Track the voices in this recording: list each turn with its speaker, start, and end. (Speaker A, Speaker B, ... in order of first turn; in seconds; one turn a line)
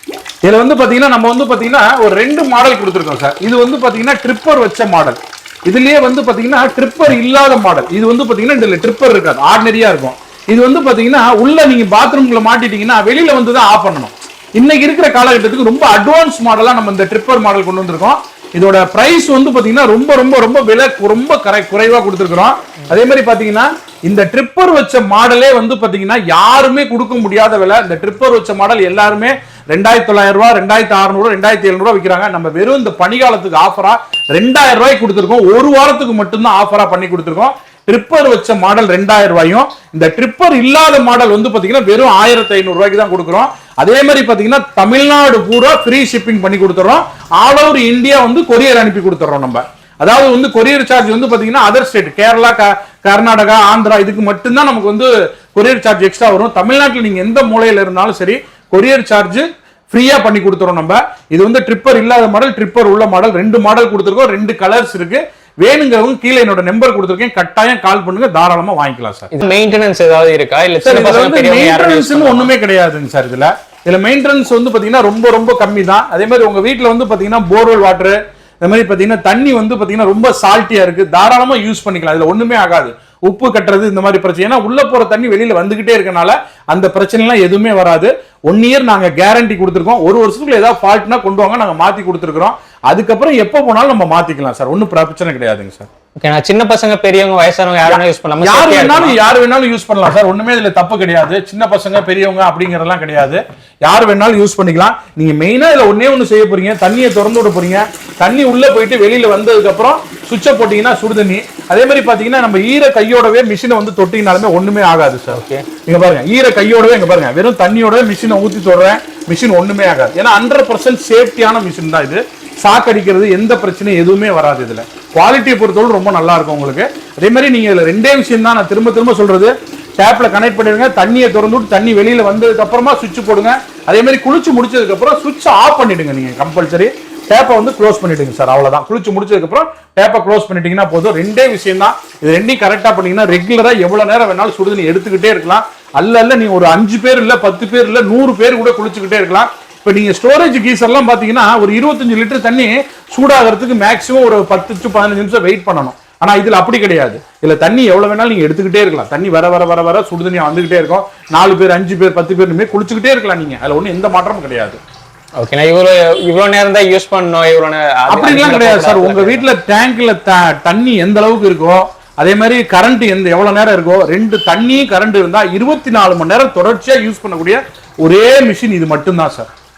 Speaker A: 0.4-69.3
Speaker B: 69.3-72.5
Speaker A: 70.8-95.9
Speaker B: 96.2-99.2
Speaker A: 97.9-164.8
Speaker B: 115.3-115.6
Speaker B: 165.4-169.4
Speaker A: 168.1-179.5